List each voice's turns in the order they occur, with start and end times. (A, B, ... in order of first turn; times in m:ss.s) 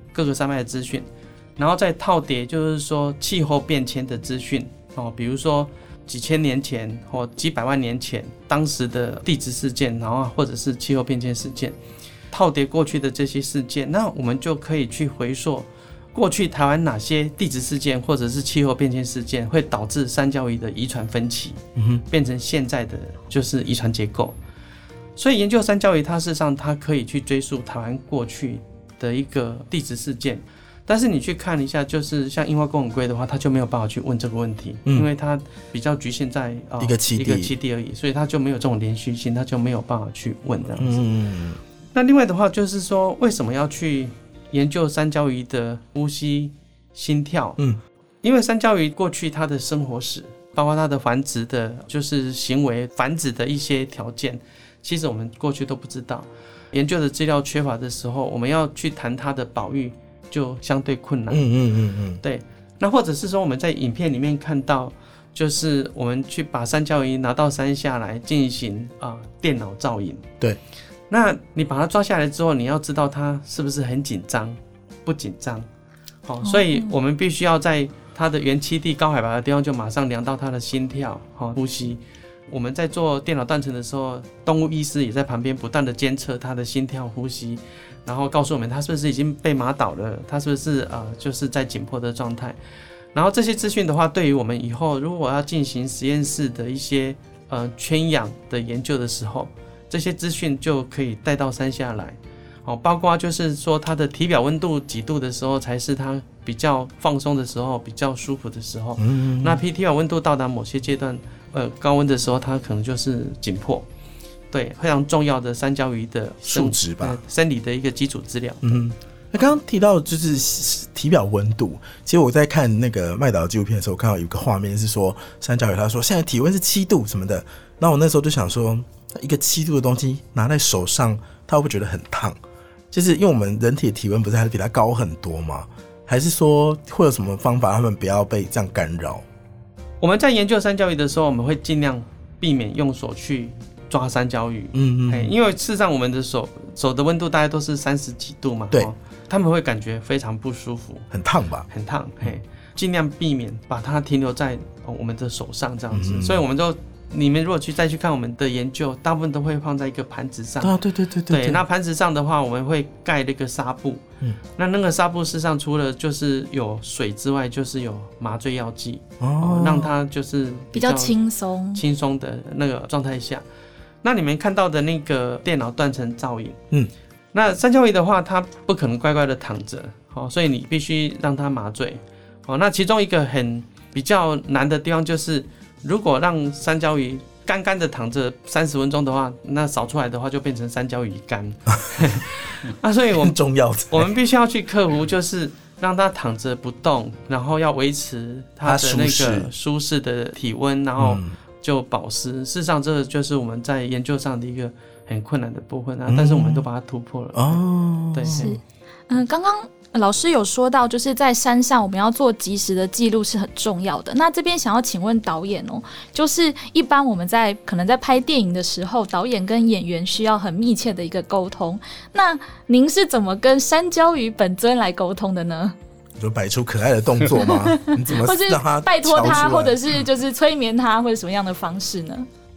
0:00.1-0:11.8 A
0:12.3-0:24.4 A
0:21.8-0:22.0 B
0:25.2-0:41.0 A
0:36.8-0:37.5 B
0:40.8-0:41.6 B
0:41.9-0:47.6 A
0:48.2-1:01.5 A
1:01.3-1:02.2 B
1:02.2-1:10.3 A
1:11.1-1:15.7 A
1:16.2-1:32.6 A
1:16.4-1:16.9 C
1:33.1-1:53.9 A
1:49.0-1:49.6 B
1:54.5-1:58.6 A
1:56.4-1:57.2 B
1:58.6-2:12.4 B
2:12.9-2:19.2 B
2:20.0-2:31.1 A
2:24.7-2:25.3 B
2:31.1-2:31.7 B
2:31.7-2:40.8 A
2:35.9-2:36.4 B
2:40.6-2:41.6 B
2:41.3-2:44.0 A
2:44.6-2:51.2 A
2:49.2-2:49.9 B
2:50.7-2:51.8 C
2:51.8-2:53.4 A
2:54.0-2:56.6 A
2:57.3-3:13.4 A
3:13.2-3:14.1 B
3:13.9-3:27.6 A
3:18.6-3:19.5 B
3:21.0-3:21.4 B
3:26.1-3:26.7 B
3:27.3-3:28.5 B
3:28.1-3:28.6 A
3:28.3-3:45.8 C
3:46.2-3:49.8 B
3:47.4-3:52.3 C